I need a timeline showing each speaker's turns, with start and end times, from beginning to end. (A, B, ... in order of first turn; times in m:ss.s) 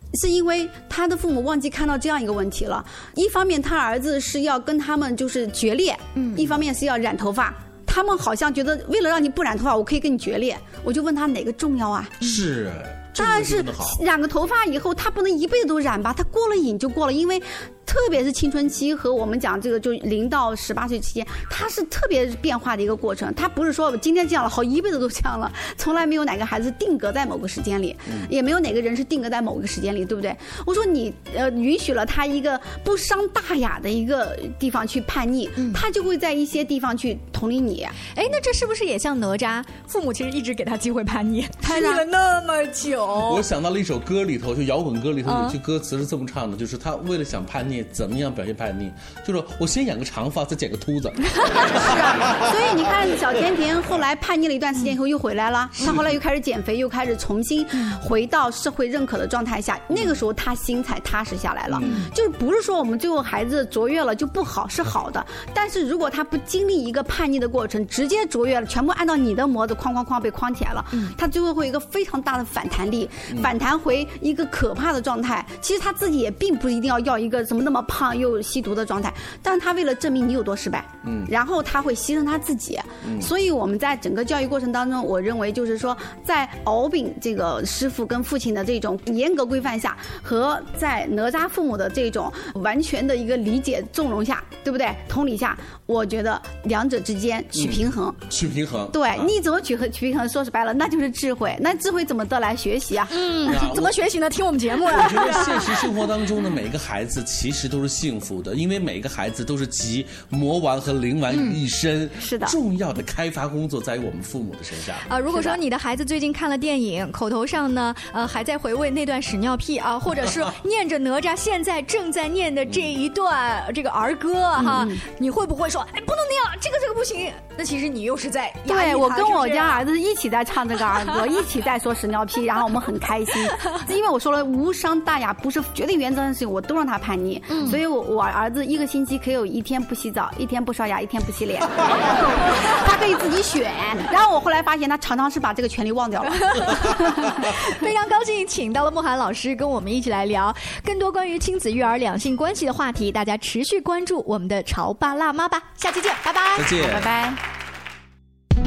0:00.1-0:12.2 A
0:12.2-0:14.0 B
0:13.2-0:38.0 A
0:38.1-0:43.4 C
0:41.6-0:42.0 A
0:43.2-0:52.6 B
0:45.2-0:45.6 C
0:51.4-0:51.7 C
0:51.7-1:38.2 A
0:55.8-0:56.2 B
0:59.9-1:00.2 B
1:01.8-1:02.0 B
1:13.3-1:13.5 B
1:21.0-1:21.3 B
1:23.0-1:23.3 B
1:37.5-1:39.4 B
1:38.9-1:43.6 A
1:43.1-1:45.7 C
1:43.4-1:44.0 B
1:44.8-1:55.2 B
1:52.2-1:52.6 A
1:55.1-2:09.8 C
1:55.3-1:55.6 A
2:04.6-2:04.9 B
2:04.7-2:05.0 A
2:08.7-2:27.6 A
2:17.5-2:17.8 C
2:26.3-2:36.8 C
2:36.6-2:37.1 B
2:36.7-2:37.4 A